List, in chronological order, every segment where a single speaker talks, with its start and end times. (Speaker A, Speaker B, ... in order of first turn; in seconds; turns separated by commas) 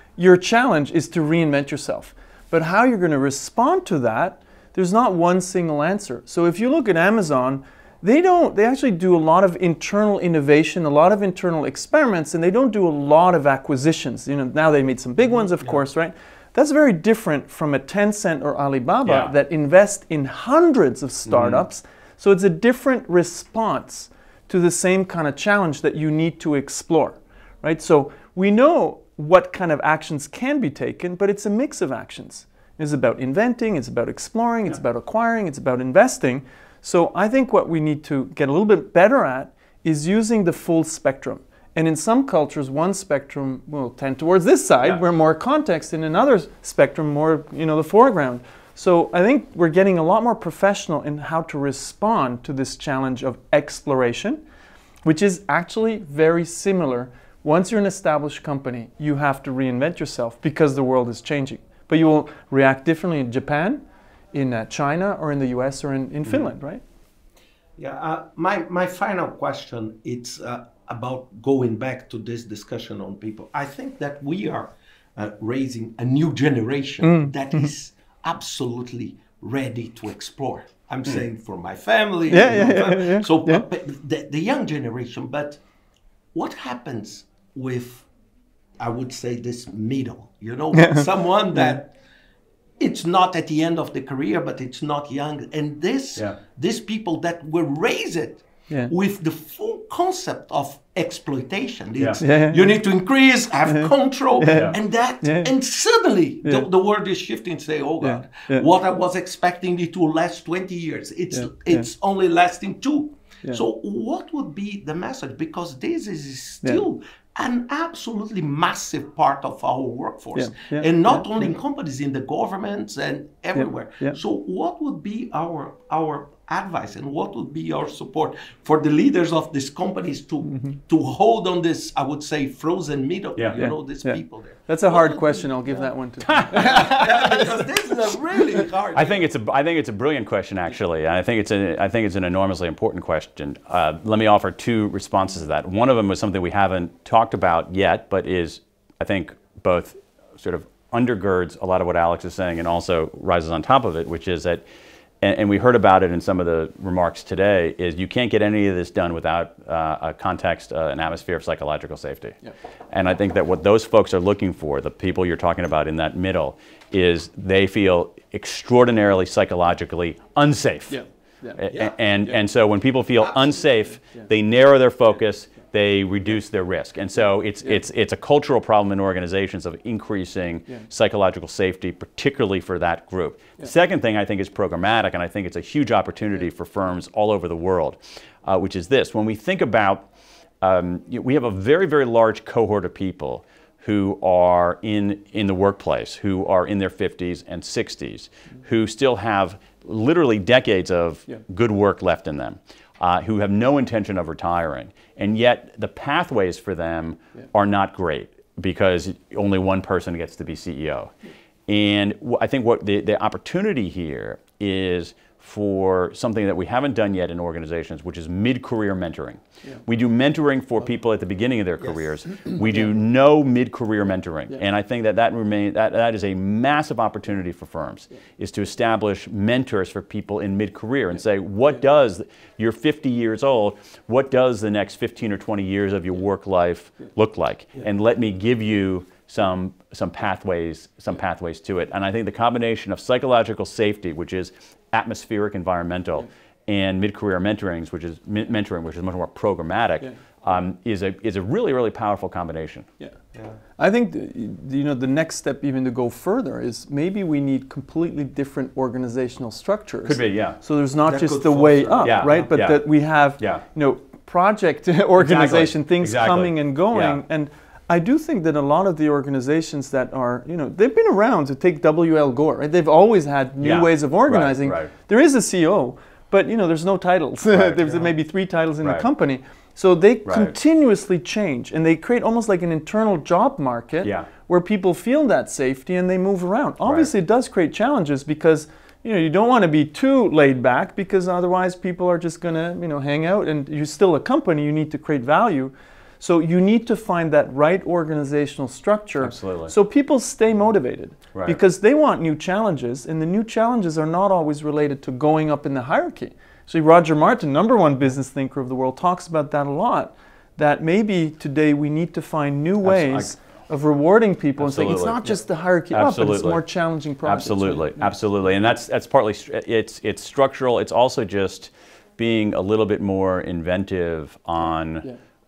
Speaker A: 0.2-54.4, Speaker B: 19.0-19.3, Speaker B: 21.3-21.6, Speaker A: 55.0-66.8, Speaker C: 67.8-85.6, Speaker A: 77.0-77.7, Speaker A: 82.3-83.6, Speaker C: 86.3-88.1, Speaker C: 88.8-91.9, Speaker A: 90.7-91.8, Speaker C: 92.8-135.9, Speaker A: 102.2-102.8, Speaker A: 103.6-105.5, Speaker B: 104.5-104.7, Speaker A: 106.4-106.7, Speaker A: 108.0-108.7, Speaker A: 111.3-111.9, Speaker A: 120.3-121.5, Speaker A: 123.5-124.2, Speaker A: 130.4-130.8, Speaker A: 133.6-137.6, Speaker B: 136.2-136.8, Speaker C: 136.6-139.3, Speaker A: 138.3-138.6, Speaker B: 138.9-154.7, Speaker B: 155.2-162.4, Speaker B: 162.9-171.0, Speaker A: 170.9-171.6, Speaker B: 171.5-190.1, Speaker C: 171.7-172.0, Speaker B: 190.6-211.1, Speaker B: 211.7-252.9, Speaker C: 221.8-222.2, Speaker C: 253.3-253.6, Speaker A: 253.8-318.1, Speaker B: 260.0-260.6, Speaker C: 261.0-262.4, Speaker B: 262.0-263.6, Speaker B: 265.2-267.2, Speaker B: 273.6-274.9, Speaker B: 277.5-278.1, Speaker B: 278.8-279.1, Speaker B: 280.2-280.6, Speaker B: 284.0-284.3, Speaker B: 286.8-287.1, Speaker B: 299.2-299.7, Speaker B: 301.3-301.6, Speaker B: 312.8-313.4, Speaker B: 314.6-316.6, Speaker B: 317.2-325.1